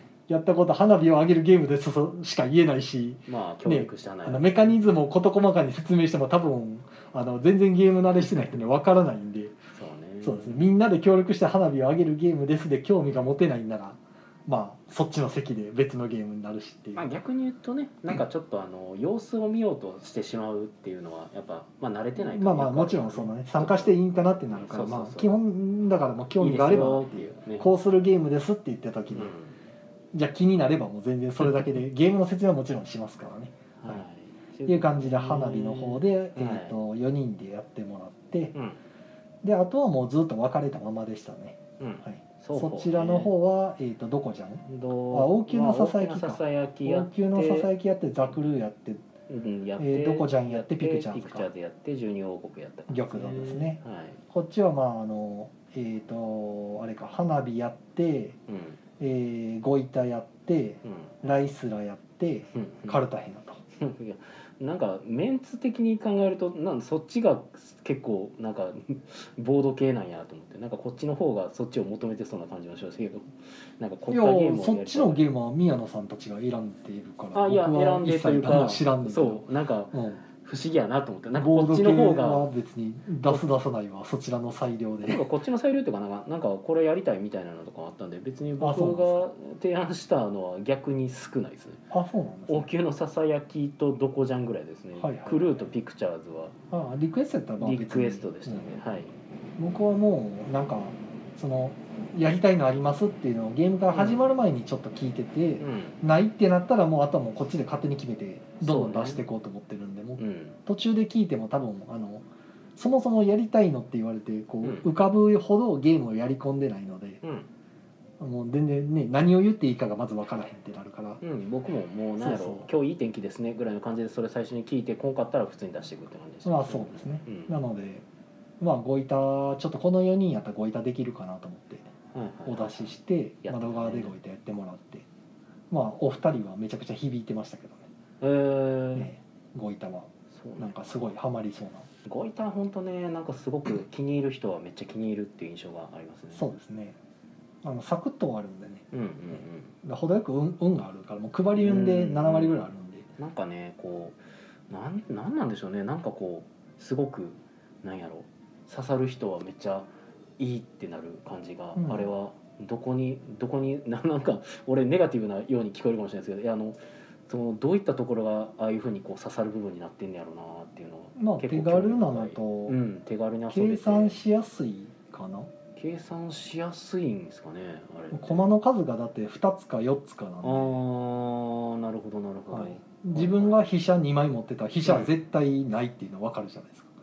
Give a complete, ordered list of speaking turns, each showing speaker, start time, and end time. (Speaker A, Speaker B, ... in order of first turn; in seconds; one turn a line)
Speaker A: 0.3-9.6
Speaker B: 3.3-4.7
Speaker B: 9.8-10.7
Speaker A: 10.2-17.1
Speaker B: 17.0-23.9
Speaker A: 22.2-29.3
Speaker B: 24.6-25.3
Speaker B: 26.4-27.7
Speaker B: 29.1-29.6
Speaker A: 30.1-34.0
Speaker B: 33.8-36.8
Speaker A: 34.7-38.5
Speaker A: 39.4-49.0
Speaker B: 41.8-43.3
Speaker B: 44.7-47.7
Speaker B: 49.3-54.2
Speaker A: 49.8-51.5
Speaker A: 52.9-53.8
Speaker A: 54.3-58.4
Speaker B: 58.5-58.8
Speaker A: 59.0-63.6
Speaker B: 60.8-61.1
Speaker B: 62.5-63.0
Speaker B: 63.8-75.2
Speaker A: 74.1-80.2
Speaker B: 77.3-82.5
Speaker A: 81.4-85.2
Speaker B: 85.0-91.8
Speaker A: 88.6-89.2
Speaker A: 91.9-92.7
Speaker B: 92.5-96.5
Speaker A: 95.0-95.7
Speaker A: 96.7-98.7
Speaker B: 97.6-99.1
Speaker A: 99.6-112.2
Speaker B: 103.9-104.2
Speaker B: 105.6-106.0
Speaker B: 108.6-109.2
Speaker B: 110.2-110.6
Speaker A: 112.8-117.2
Speaker B: 117.2-117.5
Speaker A: 118.2-121.2
Speaker B: 121.2-127.6
Speaker A: 122.2-122.7
Speaker A: 126.5-128.1
Speaker A: 128.6-131.9
Speaker B: 132.1-132.9
Speaker A: 132.5-135.1
Speaker B: 133.4-134.2
Speaker A: 135.7-137.9
Speaker B: 138.2-139.1
Speaker A: 138.9-141.9
Speaker B: 140.3-140.8
Speaker B: 142.1-146.5
Speaker A: 146.3-147.0
Speaker A: 147.6-153.1
Speaker B: 148.9-149.8
Speaker B: 151.6-152.7
Speaker B: 153.2-154.2
Speaker B: 154.7-174.2
Speaker A: 161.8-162.1
Speaker A: 171.2-172.8
Speaker A: 173.5-175.5
Speaker B: 175.8-178.5
Speaker A: 178.1-180.8
Speaker B: 180.4-183.7
Speaker A: 182.5-186.9
Speaker B: 184.8-185.1